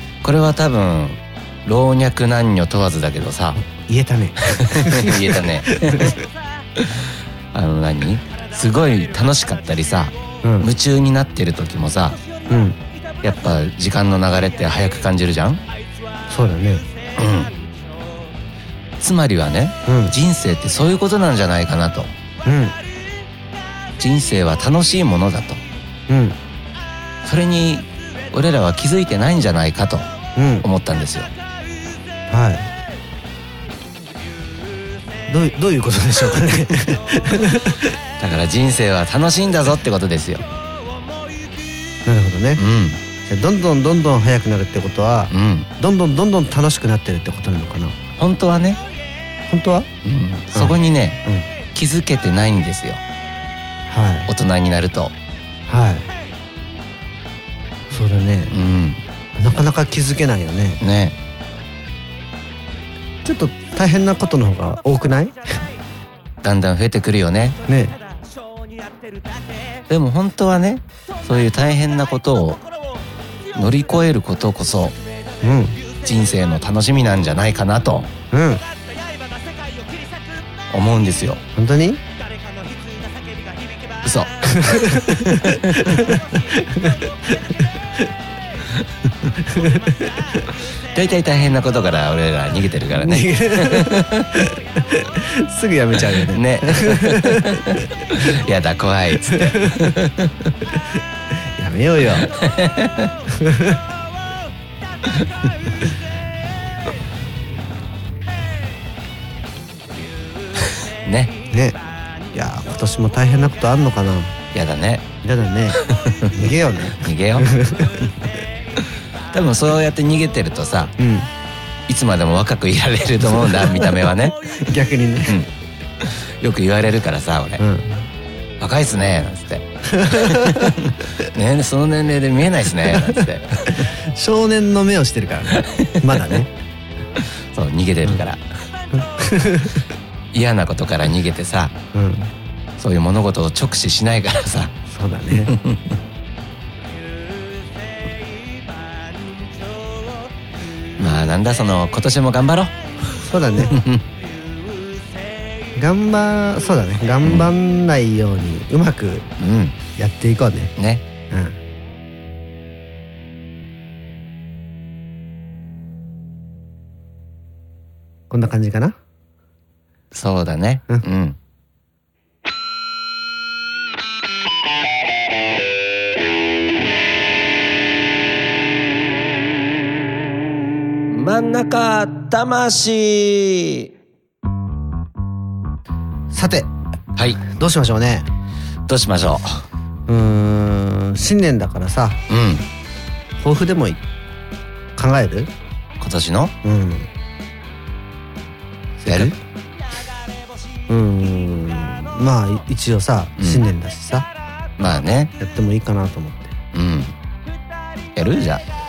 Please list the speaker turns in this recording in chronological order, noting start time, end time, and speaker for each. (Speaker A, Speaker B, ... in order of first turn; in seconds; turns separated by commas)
Speaker A: 0.2-3.6, Speaker B: 3.5-6.2, Speaker A: 4.5-6.2, Speaker A: 6.8-12.2, Speaker B: 10.4-10.7, Speaker B: 12.5-12.8, Speaker A: 13.2-15.6, Speaker B: 16.3-16.8, Speaker A: 17.1-17.5, Speaker A: 19.0-22.1, Speaker B: 19.9-20.1, Speaker B: 22.4-22.8, Speaker A: 24.0-25.6, Speaker B: 26.1-26.4, Speaker A: 27.2-30.1, Speaker B: 30.4-30.7, Speaker A: 30.6-31.3, Speaker B: 32.3-32.7, Speaker B: 35.3-37.9, Speaker A: 38.2-40.4, Speaker B: 42.0-42.6, Speaker A: 42.6-43.0, Speaker B: 43.2-48.0, Speaker A: 45.3-45.7, Speaker A: 48.2-48.8, Speaker B: 49.5-49.9, Speaker A: 50.0-51.2, Speaker B: 50.5-51.5, Speaker A: 51.7-53.0, Speaker B: 53.9-54.3, Speaker A: 54.3-55.1, Speaker B: 55.7-56.1, Speaker B: 57.9-58.5, Speaker A: 58.5-59.0, Speaker B: 59.3-60.8, Speaker A: 60.8-61.1, Speaker B: 63.2-65.6, Speaker A: 66.4-67.6, Speaker B: 67.7-68.0, Speaker A: 69.9-72.6, Speaker A: 73.5-75.0, Speaker B: 75.4-75.8, Speaker A: 76.0-78.1, Speaker B: 78.3-78.6, Speaker A: 80.7-81.4, Speaker B: 81.5-82.0, Speaker A: 84.0-86.2, Speaker B: 84.4-88.1, Speaker B: 89.4-90.5, Speaker A: 90.9-94.5, Speaker B: 93.0-98.2, Speaker A: 96.1-100.3, Speaker B: 99.3-99.9, Speaker B: 101.5-102.3, Speaker A: 102.2-103.1, Speaker B: 103.3-103.8, Speaker A: 111.0-111.3, Speaker B: 111.5-111.8, Speaker B: 112.3-114.3, Speaker A: 114.5-115.0, Speaker B: 115.2-118.2, Speaker A: 115.8-117.5, Speaker A: 118.8-120.9, Speaker B: 121.0-121.3, Speaker A: 121.9-124.7, Speaker B: 124.6-125.5, Speaker A: 126.0-127.6, Speaker B: 127.6-128.1, Speaker A: 128.6-133.9, Speaker B: 129.9-130.7, Speaker B: 133.0-136.5, Speaker A: 135.6-136.1, Speaker A: 137.5-138.4, Speaker B: 138.9-139.9, Speaker A: 140.3-141.7, Speaker B: 141.9-142.3, Speaker A: 142.8-144.7, Speaker B: 144.9-145.5, Speaker A: 145.4-146.0, Speaker A: 151.0-152.8, Speaker B: 153.2-153.8, Speaker A: 153.7-154.0, Speaker B: 155.8-159.3, Speaker A: 159.4-159.8, Speaker B: 159.9-160.7, Speaker A: 160.8-161.0, Speaker B: 161.3-161.6, Speaker B: 168.3-169.0, Speaker A: 170.1-171.4, Speaker A: 181.1-183.9, Speaker B: 186.3-186.7, Speaker B: 187.4-188.3, Speaker A: 188.9-189.7, Speaker B: 190.1-192.2, Speaker A: 192.3-192.7, Speaker B: 193.4-194.0, Speaker B: 194.9-195.5, Speaker A: 196.0-196.5, Speaker B: 196.6-197.1, Speaker B: 199.0-199.3, Speaker A: 199.0-199.3, Speaker B: 200.9-204.3, Speaker A: 203.4-203.6, Speaker A: 204.8-205.3, Speaker B: 205.4-206.6, Speaker A: 206.7-207.1, Speaker A: 208.1-208.6